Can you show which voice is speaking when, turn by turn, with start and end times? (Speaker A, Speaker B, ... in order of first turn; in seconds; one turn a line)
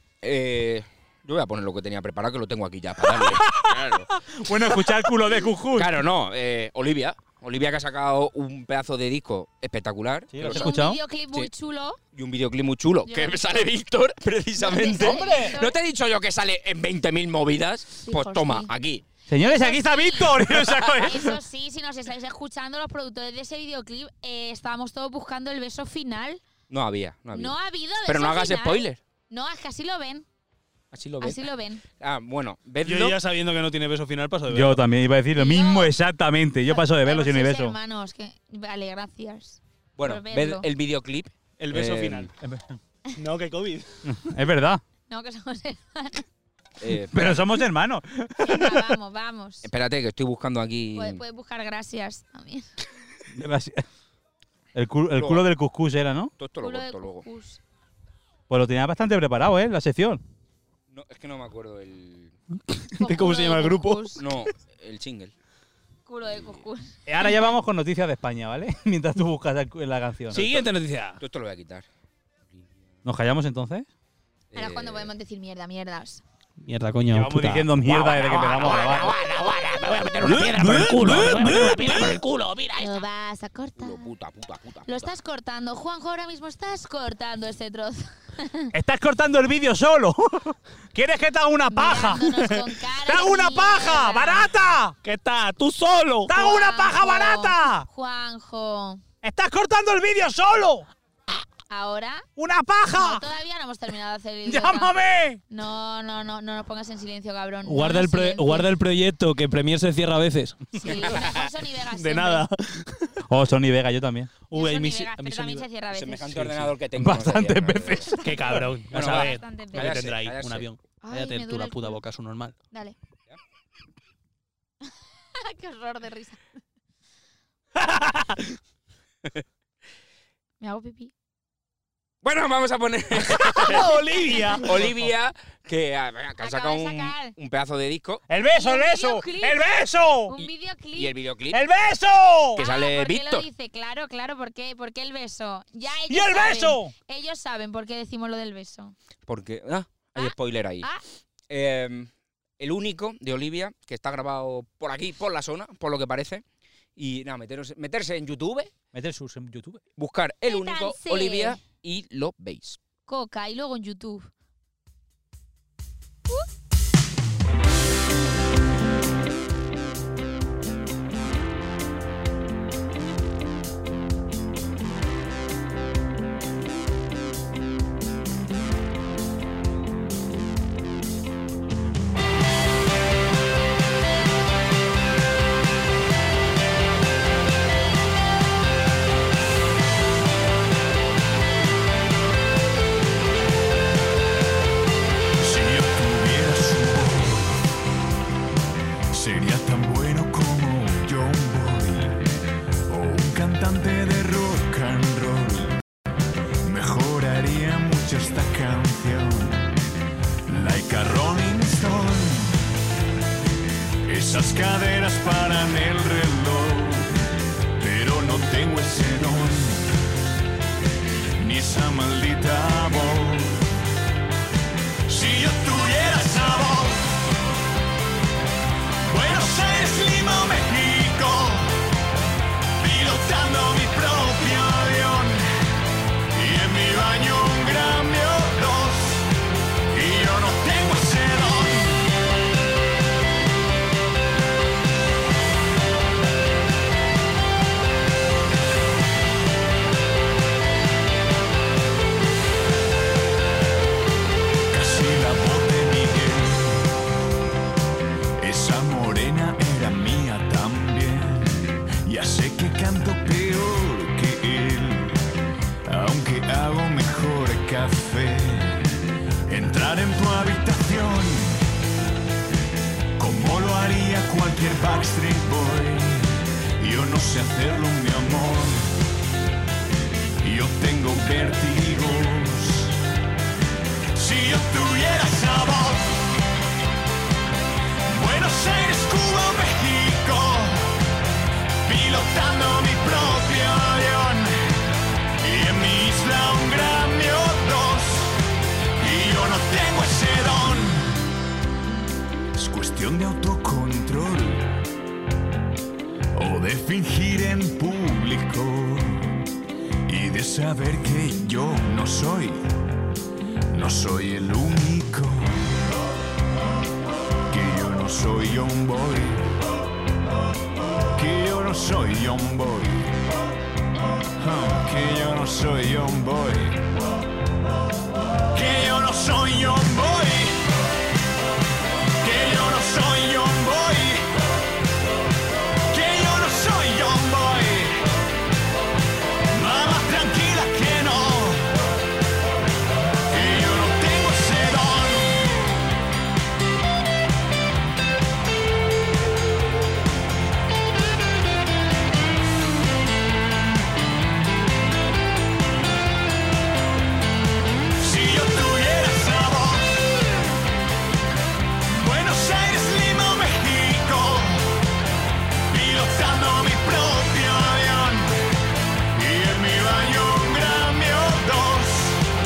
Speaker A: 0.2-5.0
Speaker B: 3.2-6.0
Speaker A: 5.7-10.8
Speaker B: 10.3-11.0
Speaker C: 10.4-12.0
Speaker A: 12.1-19.0
Speaker C: 13.1-13.6
Speaker C: 14.6-15.8
Speaker B: 15.0-15.6
Speaker C: 18.0-18.7
Speaker B: 19.3-21.4
Speaker C: 19.4-26.4
Speaker A: 26.7-29.0
Speaker C: 27.3-30.3
Speaker A: 30.9-31.4
Speaker C: 31.2-31.8
Speaker A: 31.9-33.2
Speaker D: 32.8-34.8
Speaker B: 34.5-37.8
Speaker C: 35.4-35.9
Speaker C: 36.7-40.7
Speaker A: 40.0-42.3
Speaker D: 41.6-42.3
Speaker B: 42.4-42.8
Speaker D: 43.1-43.9
Speaker B: 44.1-44.8
Speaker C: 45.1-46.3
Speaker A: 46.8-47.5
Speaker B: 47.1-48.9
Speaker C: 48.4-49.7
Speaker A: 49.6-51.2
Speaker C: 51.0-52.7
Speaker B: 53.3-53.8
Speaker B: 54.8-56.3
Speaker A: 55.1-55.5
Speaker A: 56.4-57.3
Speaker C: 56.6-57.6
Speaker B: 58.5-60.2
Speaker A: 60.9-62.3
Speaker D: 62.8-64.2
Speaker C: 63.0-64.2
Speaker A: 64.2-65.3
Speaker C: 66.1-67.3
Speaker A: 66.3-66.6
Speaker B: 67.1-70.5
Speaker D: 70.3-71.2
Speaker A: 70.3-70.7
Speaker A: 71.2-71.9
Speaker B: 73.0-73.9
Speaker A: 74.5-75.1
Speaker C: 74.5-76.2
Speaker D: 76.6-77.7
Speaker B: 77.1-79.2
Speaker A: 77.8-82.9
Speaker B: 80.2-82.2
Speaker D: 80.2-82.2
Speaker C: 82.8-84.1
Speaker A: 83.8-85.1
Speaker C: 84.9-88.7
Speaker B: 88.7-95.0
Speaker C: 91.7-94.5
Speaker D: 95.0-96.3
Speaker B: 96.3-97.9
Speaker C: 96.3-99.0
Speaker B: 99.2-100.9
Speaker C: 101.7-102.3
Speaker B: 102.4-103.2
Speaker C: 103.0-105.0
Speaker B: 104.5-105.4
Speaker C: 105.5-108.7
Speaker D: 107.7-113.2
Speaker C: 110.7-112.5
Speaker A: 110.9-111.4
Speaker B: 113.3-114.3
Speaker D: 114.5-115.7
Speaker C: 114.5-116.4
Speaker A: 115.9-118.1
Speaker D: 116.3-116.7
Speaker B: 117.0-118.6
Speaker D: 118.2-122.6
Speaker C: 118.9-120.1
Speaker A: 118.9-120.7
Speaker C: 121.0-122.0
Speaker C: 125.3-126.4
Speaker D: 127.8-128.6
Speaker C: 130.6-131.1
Speaker A: 132.2-133.9
Speaker D: 133.4-134.9
Speaker A: 134.6-138.2
Speaker C: 136.4-137.3
Speaker B: 138.3-140.3
Speaker C: 138.5-139.8
Speaker C: 140.3-141.1
Speaker A: 140.3-141.6
Speaker B: 141.5-142.6
Speaker A: 142.6-143.5
Speaker C: 142.6-148.9
Speaker B: 146.1-146.9
Speaker A: 149.3-150.9
Speaker C: 150.2-151.0
Speaker A: 151.5-156.4
Speaker A: 157.0-158.7
Speaker B: 158.9-159.8
Speaker A: 160.0-162.8
Speaker C: 160.5-161.6
Speaker C: 163.1-164.3
Speaker E: 195.4-197.6
Speaker E: 199.1-202.2
Speaker E: 202.9-205.8
Speaker E: 206.6-209.8
Speaker E: 210.5-212.6
Speaker E: 214.1-217.1
Speaker E: 217.8-219.9
Speaker E: 221.4-223.6
Speaker E: 225.1-227.1
Speaker E: 229.1-231.8
Speaker E: 232.8-235.4
Speaker E: 236.3-239.3
Speaker E: 239.9-242.1
Speaker E: 254.7-256.9
Speaker E: 258.4-265.2
Speaker E: 265.9-271.6
Speaker E: 273.2-278.9
Speaker E: 280.4-283.0
Speaker E: 284.1-286.2
Speaker E: 288.1-291.0
Speaker E: 291.8-294.6
Speaker E: 295.4-298.4
Speaker E: 299.0-301.2
Speaker E: 302.6-304.7
Speaker E: 306.3-309.4
Speaker E: 310.1-312.6
Speaker E: 313.7-315.8
Speaker E: 317.5-319.5
Speaker E: 321.1-323.2
Speaker E: 324.4-326.9
Speaker E: 328.5-330.6
Speaker E: 332.2-334.2
Speaker E: 335.9-338.1
Speaker E: 339.5-341.8
Speaker E: 343.3-345.6
Speaker E: 358.0-360.3
Speaker E: 361.9-364.9
Speaker E: 365.7-368.4
Speaker E: 369.1-372.2